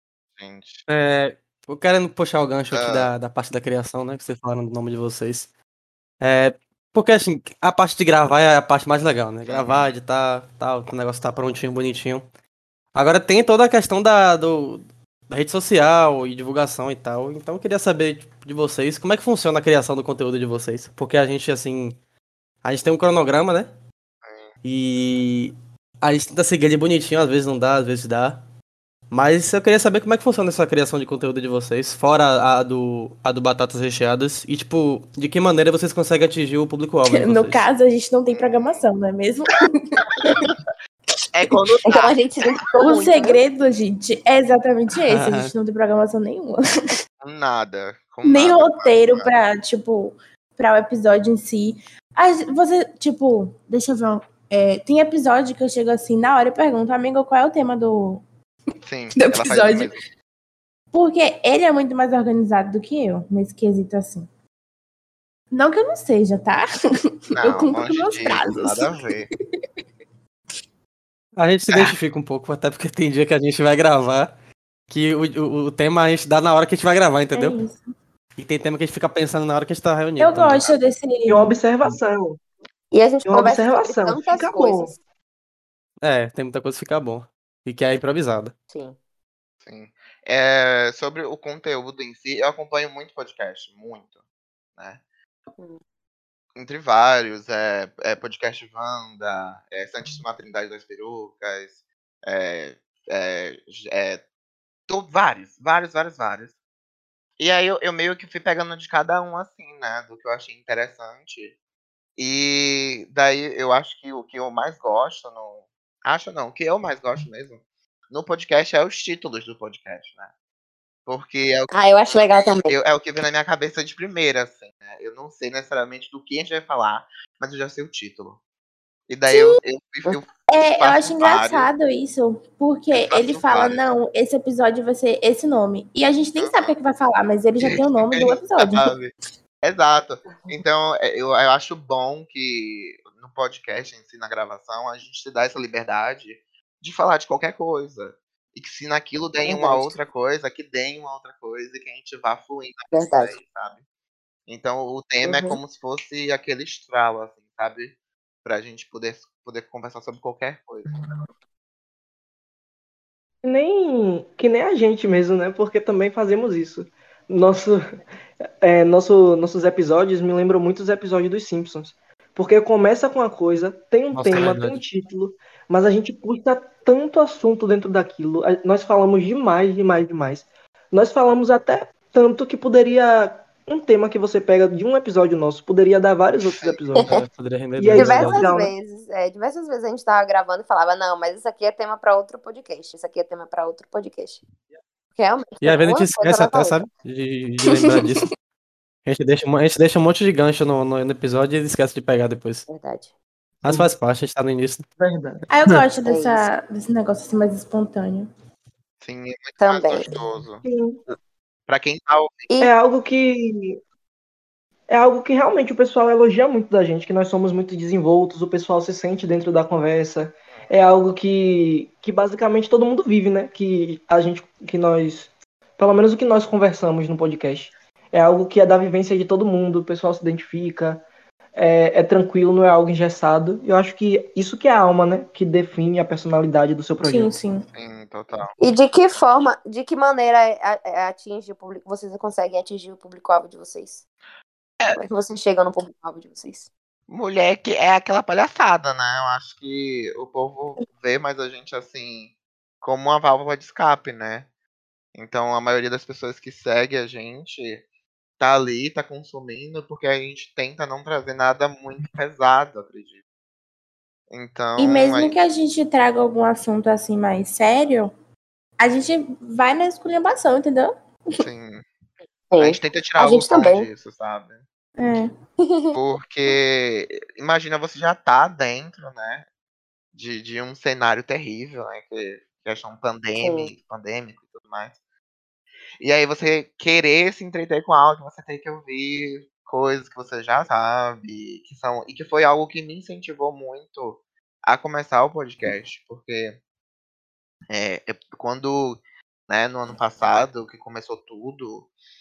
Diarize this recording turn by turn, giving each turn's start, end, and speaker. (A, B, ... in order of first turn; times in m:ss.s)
0:00.4-0:00.8 A
0:00.9-0:05.5 B
0:02.7-0:03.1 A
0:06.2-0:12.2 B
0:09.5-0:09.9 A
0:12.9-0:22.0 B
0:22.6-0:23.7 B
0:24.2-0:24.5 A
0:24.6-0:28.4 B
0:29.1-0:37.7 B
0:37.0-0:40.4 C
0:38.3-0:38.8 A
0:40.3-0:40.5 A
0:41.3-0:42.2 A
0:41.9-0:43.4 D
0:42.8-0:46.6 C
0:45.0-0:45.5 B
0:47.2-0:49.3 A
0:48.2-0:58.2 C
0:58.8-1:00.0 A
0:59.1-0:59.9 C
1:00.9-1:04.3 C
1:05.5-1:06.7 C
1:07.3-1:09.3 A
1:07.4-1:09.1 C
1:11.4-1:14.3 B
1:11.7-1:11.9 A
1:14.9-1:17.6 B
1:17.3-1:17.8 C
1:18.4-1:20.7 B
1:20.2-1:21.6 C
1:21.2-1:22.4 E
1:22.9-1:25.0 D
1:23.3-1:24.9 E
1:26.0-1:28.5 B
1:28.7-1:29.0 D
1:29.6-1:34.1 A
1:36.6-1:44.2 A
1:44.9-1:46.5 A
1:47.4-1:51.5 A
1:52.2-2:00.3 A
2:01.0-2:08.4 A
2:01.7-2:02.7 D
2:09.1-2:11.7 A
2:09.3-2:09.6 C
2:10.5-2:18.9 C
2:12.9-2:13.8 A
2:16.4-2:16.7 A
2:17.6-2:33.8 A
2:29.4-2:30.0 D
2:32.9-2:33.3 D
2:34.5-2:40.9 A
2:35.2-2:35.6 D
2:43.4-2:48.0 E
2:48.6-3:07.1 E
2:54.1-2:54.8 B
3:06.4-3:07.2 A
3:07.1-3:08.4 B
3:07.8-3:08.7 E
3:07.9-3:14.4 D
3:15.2-3:16.8 D
3:15.6-3:18.3 B
3:19.0-3:22.7 B
3:22.7-3:23.1 D
3:23.6-3:24.8 B
3:25.0-3:25.5 E
3:25.5-3:28.3 C
3:26.0-3:26.5 D
3:29.0-3:30.6 A
3:29.6-3:30.2 D
3:30.6-3:31.0 E
3:31.7-3:32.5 A
3:32.6-3:33.8 E
3:34.9-3:51.0 E
3:51.5-3:57.4 E
3:57.0-3:57.6 C
3:57.7-3:58.5 A
3:58.6-4:04.0 D
4:04.9-4:06.7 D
4:07.1-4:14.5 A
4:15.1-4:17.8 A
4:18.4-4:23.2 A
4:24.3-4:25.4 A
4:24.8-4:28.1 C
4:28.8-4:30.9 C
4:31.4-4:31.8 A
4:32.5-4:33.9 D
4:32.6-4:34.6 A
4:35.0-4:35.3 C
4:35.6-4:36.0 D
4:35.9-4:39.4 A
4:40.1-4:45.0 A
4:43.4-4:43.7 D
4:46.0-4:56.6 A
4:57.7-5:01.9 A